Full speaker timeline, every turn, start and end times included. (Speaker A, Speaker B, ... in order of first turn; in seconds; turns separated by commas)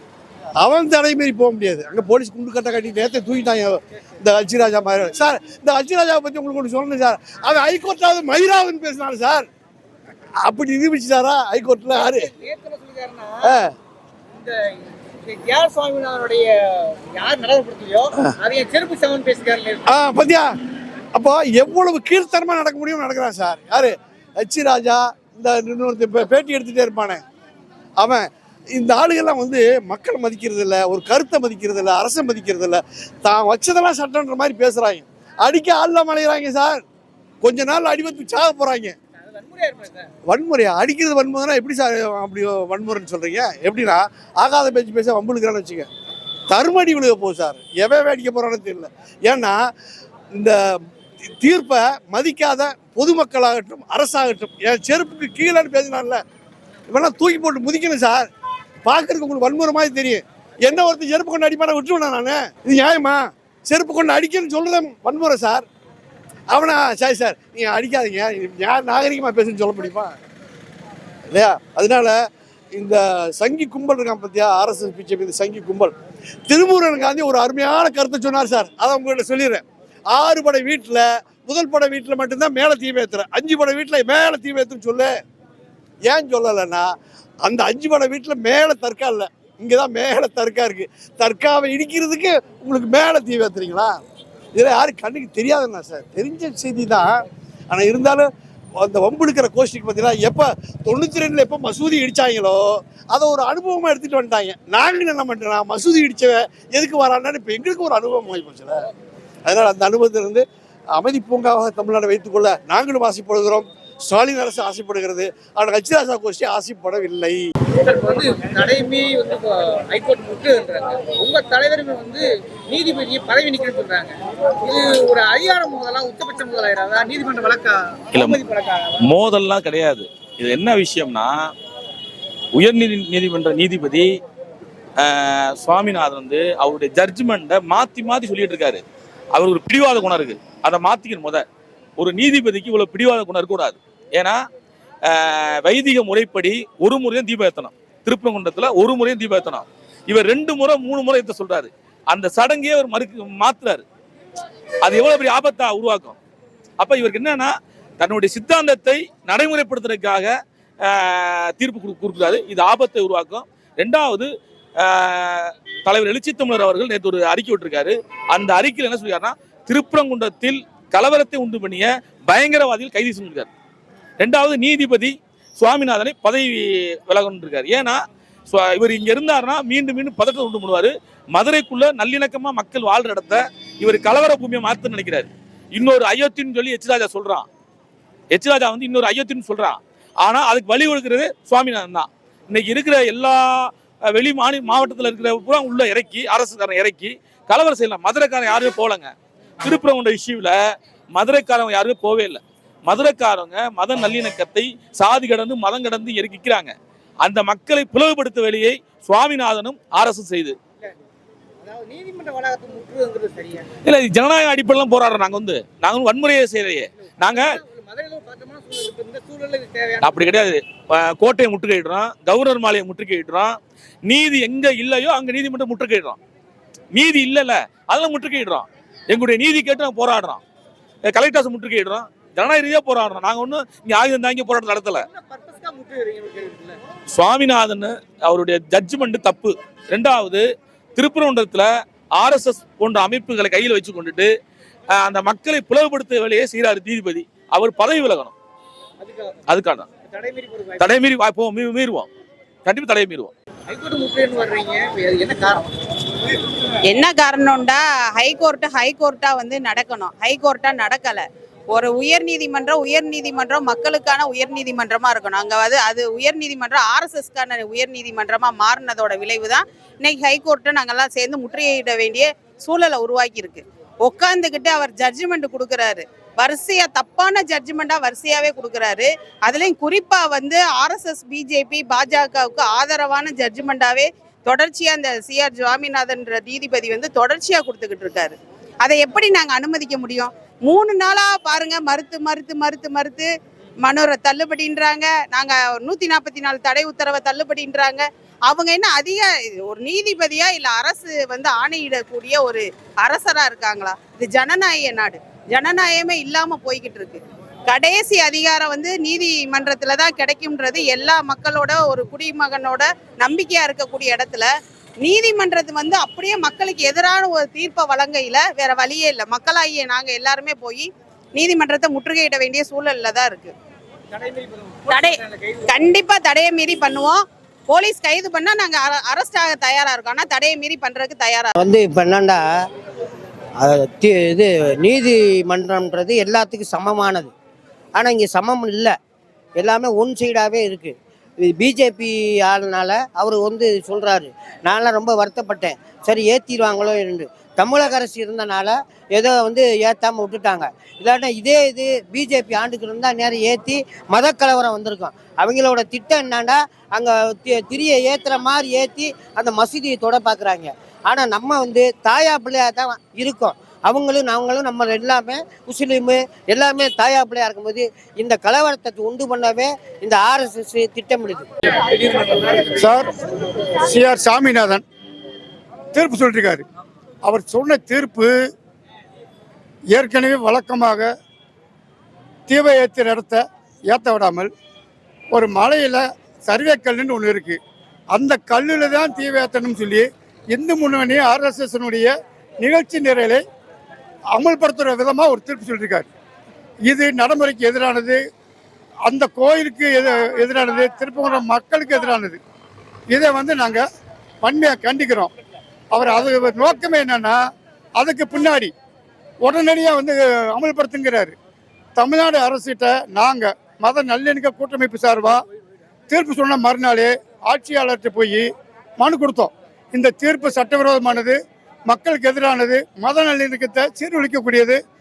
Speaker A: 0.6-9.5, Speaker A: 10.4-12.3, Speaker B: 11.9-13.5, Speaker A: 13.4-13.7, Speaker B: 14.3-14.6, Speaker B: 15.2-19.9, Speaker A: 19.9-20.5, Speaker A: 21.1-27.2, Speaker A: 28.0-36.8, Speaker A: 37.4-39.0, Speaker B: 39.2-40.1, Speaker A: 40.3-45.9, Speaker A: 46.5-49.6, Speaker A: 50.3-50.6, Speaker A: 51.2-56.2, Speaker A: 56.9-58.3, Speaker A: 58.9-65.7, Speaker A: 66.5-70.1, Speaker A: 71.3-72.2, Speaker A: 72.8-75.9, Speaker A: 76.5-85.1, Speaker A: 86.1-86.9, Speaker A: 87.4-94.0, Speaker A: 94.5-108.8, Speaker A: 109.5-110.4, Speaker A: 111.0-117.4, Speaker B: 117.8-129.1, Speaker C: 129.1-131.3, Speaker C: 132.6-134.1, Speaker C: 135.0-138.8, Speaker C: 139.3-141.4, Speaker C: 142.0-144.4, Speaker C: 145.1-153.8, Speaker C: 154.8-156.2, Speaker C: 156.8-173.5, Speaker C: 174.2-178.0, Speaker C: 178.5-187.5, Speaker C: 188.3-200.6, Speaker C: 201.2-206.7, Speaker C: 207.2-210.6, Speaker B: 211.6-213.7, Speaker C: 213.9-217.5, Speaker B: 217.0-220.4, Speaker C: 220.0-223.6, Speaker C: 224.1-226.2, Speaker C: 226.9-230.4, Speaker C: 231.1-235.1, Speaker B: 234.9-236.8, Speaker C: 237.1-240.4, Speaker C: 241.0-244.3, Speaker C: 245.0-248.3, Speaker B: 249.0-249.4, Speaker C: 249.5-249.9, Speaker B: 250.0-251.0, Speaker C: 250.8-252.1, Speaker C: 252.7-253.3, Speaker B: 253.7-255.7, Speaker D: 256.9-293.3, Speaker D: 293.8-314.5, Speaker D: 315.0-323.5, Speaker B: 324.1-325.9, Speaker D: 324.9-325.2, Speaker D: 325.7-331.5, Speaker E: 331.6-332.4, Speaker E: 333.6-337.3, Speaker E: 338.0-338.9, Speaker E: 339.6-371.5, Speaker B: 371.8-372.8, Speaker F: 372.8-373.1, Speaker F: 373.8-374.8, Speaker F: 375.9-376.6, Speaker F: 377.2-378.3, Speaker F: 379.9-381.1, Speaker F: 382.5-384.5, Speaker F: 385.3-387.6, Speaker F: 388.1-393.4, Speaker F: 394.3-396.1, Speaker F: 396.9-398.2, Speaker F: 399.1-402.4, Speaker F: 403.1-403.9, Speaker F: 404.4-405.3, Speaker F: 405.9-407.4, Speaker F: 408.0-408.7, Speaker F: 409.4-411.4, Speaker F: 412.0-415.4, Speaker F: 416.1-418.5, Speaker F: 419.0-421.4, Speaker F: 421.9-424.8